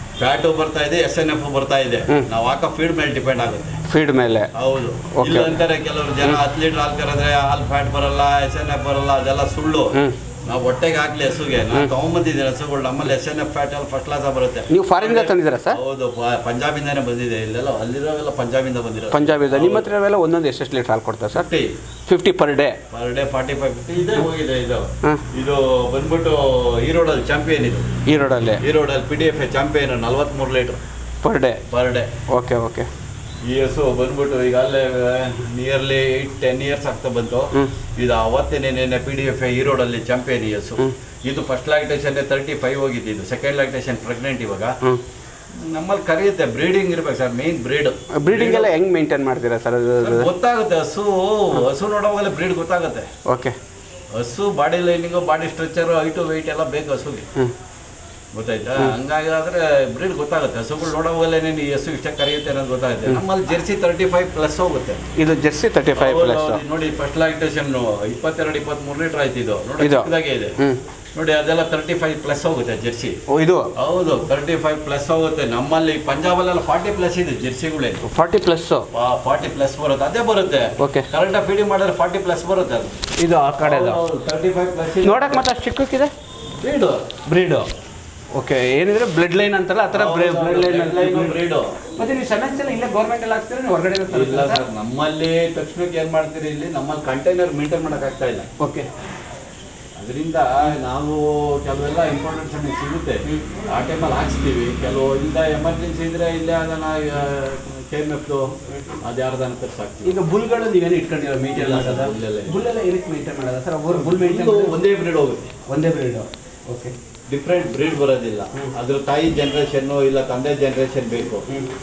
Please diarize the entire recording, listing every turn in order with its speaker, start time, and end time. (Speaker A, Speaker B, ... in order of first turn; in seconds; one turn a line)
Speaker A: 0.2-3.8
Speaker B: 3.9-4.5
Speaker A: 4.5-19.9
Speaker B: 5.1-5.6
Speaker B: 14.7-15.8
Speaker B: 19.1-21.5
Speaker A: 21.3-21.7
Speaker B: 22.1-22.8
Speaker A: 22.9-27.9
Speaker B: 28.1-28.6
Speaker A: 28.6-30.8
Speaker B: 31.2-31.6
Speaker A: 31.7-32.1
Speaker B: 32.3-32.9
Speaker A: 33.4-44.8
Speaker A: 45.6-48.8
Speaker B: 48.2-50.3
Speaker A: 50.0-53.1
Speaker B: 53.3-53.5
Speaker A: 54.1-57.3
Speaker A: 58.3-65.0
Speaker B: 65.2-66.6
Speaker A: 66.0-70.6
Speaker B: 69.8-70.8
Speaker A: 71.2-73.2
Speaker B: 73.3-73.7
Speaker A: 73.8-78.0
Speaker B: 78.0-78.9
Speaker A: 78.9-83.0
Speaker B: 80.8-81.1
Speaker B: 83.2-84.0
Speaker A: 83.6-85.5
Speaker B: 85.0-86.1
Speaker A: 86.6-87.1
Speaker B: 87.3-87.7
Speaker B: 88.3-91.4
Speaker A: 89.9-91.8
Speaker B: 92.0-94.6
Speaker A: 94.1-98.5
Speaker B: 98.6-98.9
Speaker A: 100.0-110.2
Speaker B: 110.0-114.7
Speaker A: 111.5-112.6
Speaker A: 113.9-115.5
Speaker B: 115.7-116.9
Speaker A: 117.3-121.5